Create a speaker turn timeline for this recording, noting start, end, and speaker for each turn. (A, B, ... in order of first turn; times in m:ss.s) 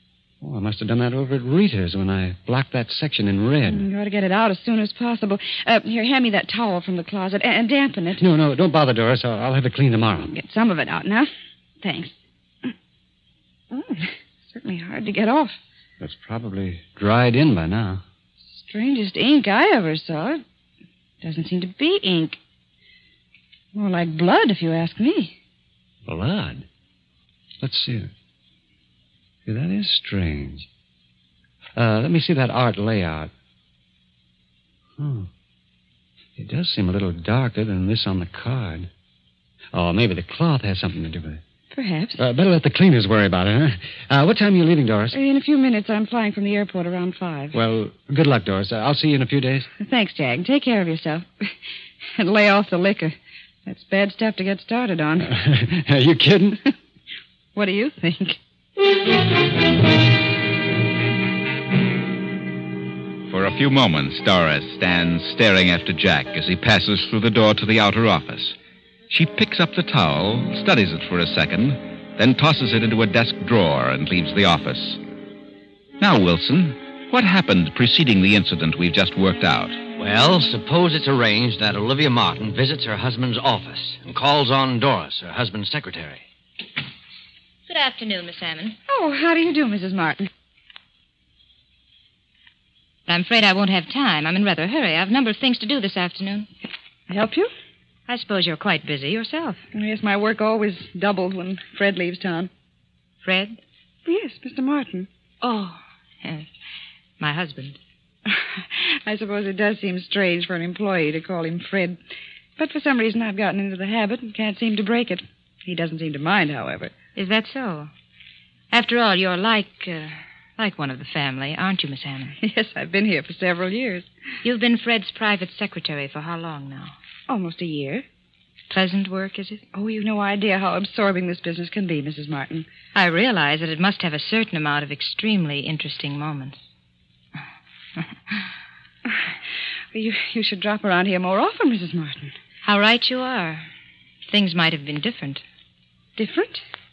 0:00.4-0:03.8 A
0:03.7-0:08.2 B
0:08.2-0:10.3 A
0:10.3-0:12.7 B
0:13.7-0:15.6 B
0:16.0-0:18.0 A
0:18.4-0:20.4 B
0:21.2-0:22.4 B
0:23.7-0:25.4 B
0:26.0-0:26.6 A
0:27.6-0:28.1 A
0:29.4-0:30.7 A
0:31.7-0:33.3 A
0:35.0-0:35.3 A
0:36.4-0:38.9 A
0:39.7-0:41.4 A
0:41.7-0:42.2 B
0:42.2-0:45.2 A
0:45.1-0:47.6 B
0:47.5-0:49.7 A
0:49.8-0:51.5 B
0:52.2-0:55.3 B
0:55.2-0:56.6 A
0:57.5-0:58.4 B
1:03.3-1:08.6 C
1:09.1-1:15.0 C
1:16.0-1:19.8 C
1:20.0-1:26.2 D
1:27.7-1:28.8 E
1:28.9-1:30.3 B
1:33.1-1:36.5 E
1:37.1-1:37.5 B
1:38.1-1:39.6 E
1:39.7-1:42.5 B
1:43.2-1:43.6 E
1:44.0-1:45.1 B
1:45.4-1:46.5 E
1:47.2-1:47.8 E
1:48.3-1:52.0 B
1:52.6-1:56.9 B
1:57.1-1:57.9 E
1:58.7-2:02.4 E
2:02.4-2:04.1 B
2:04.4-2:07.0 E
2:07.3-2:08.0 B
2:08.7-2:09.6 E
2:09.7-2:12.7 B
2:12.9-2:16.6 E
2:19.9-2:22.3 B
2:22.6-2:23.7 E
2:24.3-2:25.4 E
2:26.2-2:26.6 B